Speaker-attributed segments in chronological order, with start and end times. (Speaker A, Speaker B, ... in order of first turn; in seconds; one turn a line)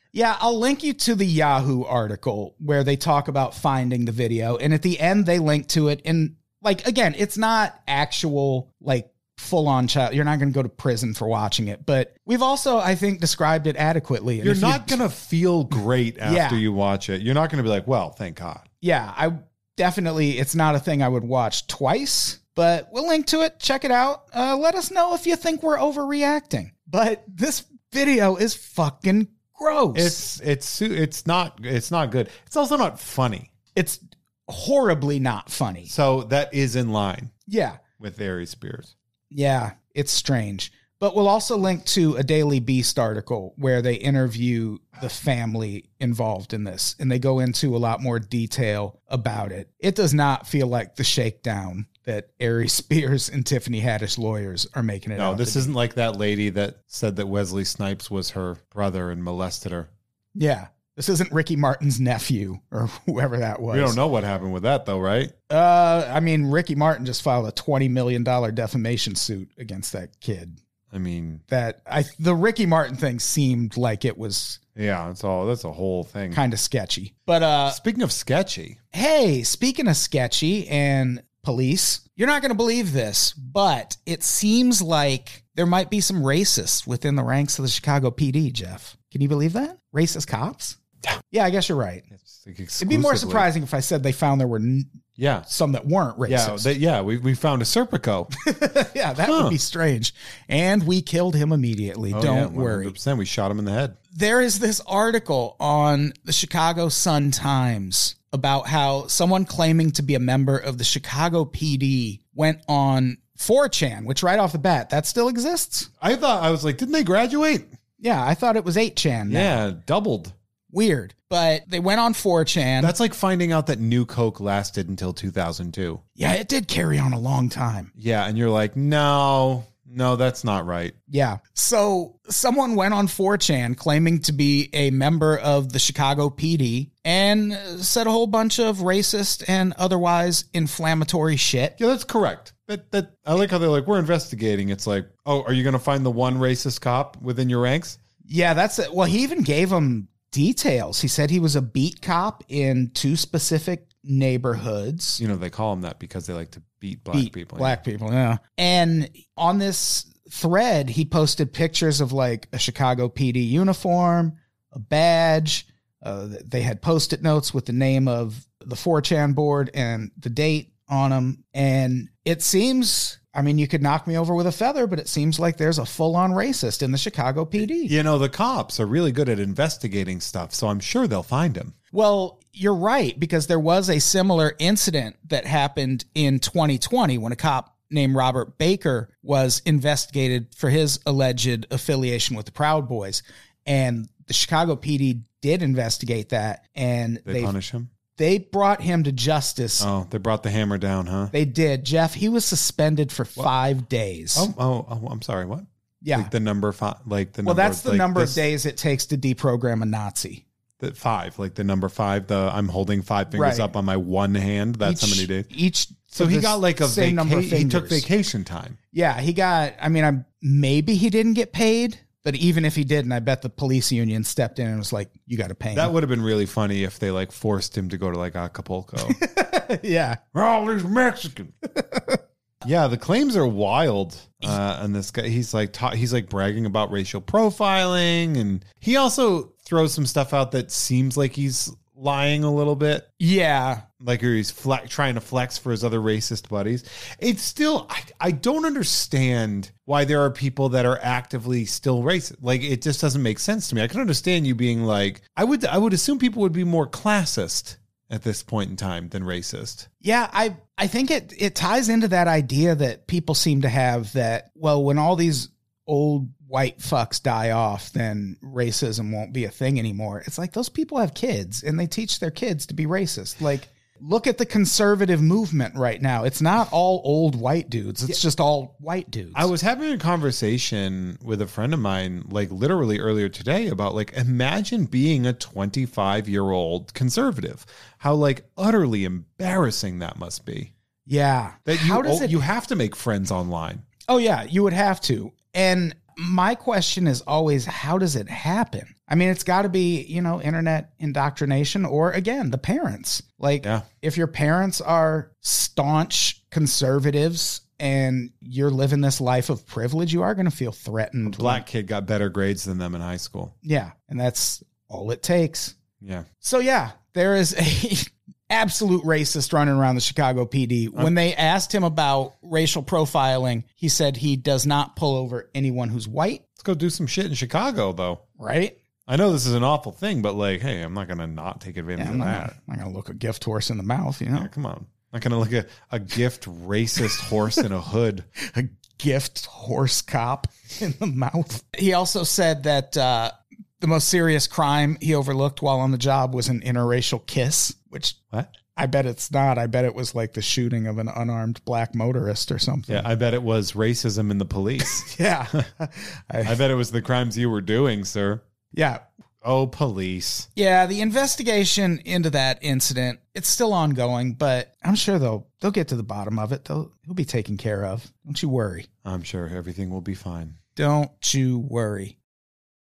Speaker A: 0.1-15.0
Speaker B: 14.4-18.6
Speaker A: 16.2-16.6
Speaker A: 18.8-30.2
Speaker B: 29.9-33.5
Speaker A: 33.7-35.9
Speaker B: 35.9-37.3
Speaker A: 37.5-37.8
Speaker B: 38.0-38.9
Speaker A: 39.3-55.7
Speaker B: 55.1-59.9
Speaker A: 60.3-64.0
Speaker B: 63.7-65.3
Speaker A: 65.5-70.6
Speaker B: 70.9-71.4
Speaker A: 71.5-74.6
Speaker B: 74.8-76.4
Speaker A: 76.3-77.8
Speaker B: 77.7-78.8
Speaker A: 78.9-90.8
Speaker A: 91.3-92.0
Speaker B: 92.1-93.5
Speaker A: 92.8-94.9
Speaker B: 95.2-95.5
Speaker A: 95.5-96.7
Speaker B: 96.3-98.3
Speaker A: 98.4-102.9
Speaker B: 99.2-99.6
Speaker B: 102.1-104.0
Speaker A: 104.1-115.9
Speaker B: 116.0-117.7
Speaker A: 118.0-119.6
Speaker B: 119.3-120.3
Speaker A: 120.7-122.9
Speaker B: 122.8-126.0
Speaker A: 126.2-127.9
Speaker B: 128.0-130.9
Speaker A: 131.1-141.7
Speaker B: 141.8-148.0
Speaker A: 148.2-155.2
Speaker B: 155.2-157.8
Speaker A: 157.1-177.9
Speaker B: 177.8-181.7
Speaker A: 181.9-197.5
Speaker B: 197.2-197.9
Speaker A: 198.1-199.9
Speaker B: 199.8-201.3
Speaker A: 201.3-204.5
Speaker B: 204.3-208.4
Speaker A: 206.0-206.3
Speaker A: 207.4-210.4
Speaker B: 210.8-215.5
Speaker A: 213.3-213.7
Speaker A: 214.8-218.1
Speaker B: 216.1-218.8
Speaker A: 218.9-225.9
Speaker B: 225.7-229.2
Speaker A: 229.0-230.2
Speaker B: 230.3-231.5
Speaker A: 231.8-232.2
Speaker B: 232.6-243.1
Speaker A: 243.2-243.8
Speaker B: 244.0-259.9
Speaker A: 260.0-279.5
Speaker B: 279.3-290.7
Speaker A: 291.1-292.4
Speaker B: 291.7-293.8
Speaker A: 294.1-311.6
Speaker B: 303.6-303.9
Speaker B: 311.2-313.5
Speaker A: 313.6-315.7
Speaker B: 316.0-316.2
Speaker A: 316.4-326.4
Speaker B: 326.6-328.2
Speaker A: 328.4-328.8
Speaker B: 329.1-332.5
Speaker A: 332.0-334.5
Speaker B: 334.3-338.3
Speaker A: 338.4-348.2
Speaker A: 348.7-353.1
Speaker B: 352.9-355.6
Speaker A: 354.8-356.6
Speaker B: 356.4-358.4
Speaker A: 358.7-359.0
Speaker B: 359.4-360.5
Speaker A: 360.6-368.9
Speaker B: 369.0-370.6
Speaker A: 370.8-372.1